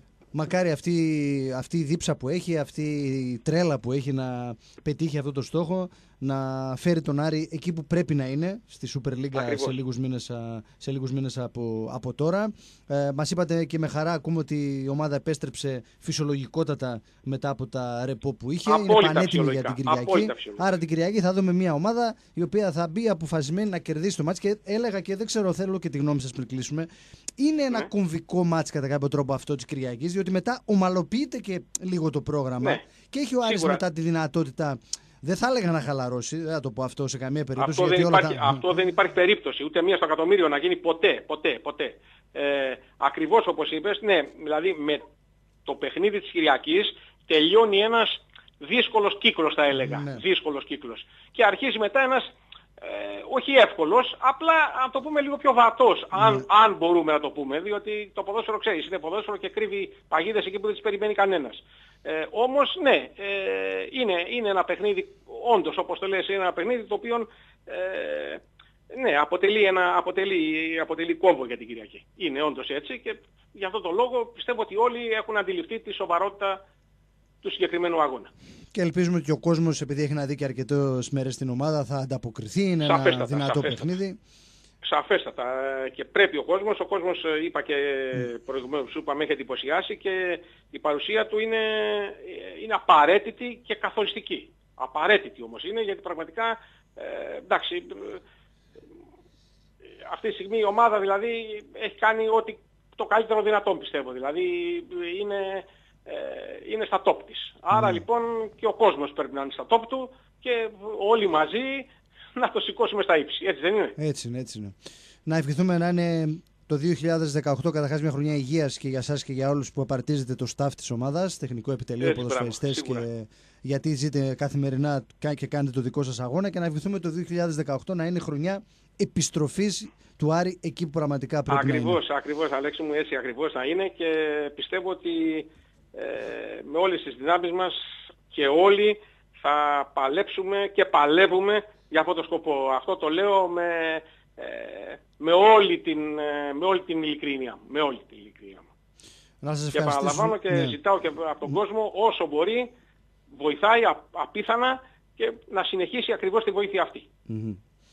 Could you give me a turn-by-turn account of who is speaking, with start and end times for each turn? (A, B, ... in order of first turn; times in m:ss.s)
0:00.3-0:38.6 A
0:09.3-0:09.8 B
0:18.6-0:20.7 B
0:33.4-0:33.8 B
0:37.6-0:45.0 B
0:45.6-0:52.3 B
0:49.8-0:50.2 A
0:52.8-1:16.6 B
0:56.1-0:56.4 A
1:17.4-1:18.3 B
1:18.7-1:24.2 A
1:22.8-1:24.0 B
1:24.8-1:38.2 B
1:40.0-1:54.0 B
1:47.7-1:48.0 A
1:54.0-2:12.0 A
2:02.0-2:03.0 B
2:11.5-2:28.7 B
2:29.4-2:30.8 A
2:29.7-2:32.7 B
2:33.3-2:37.1 B
2:37.3-2:37.6 A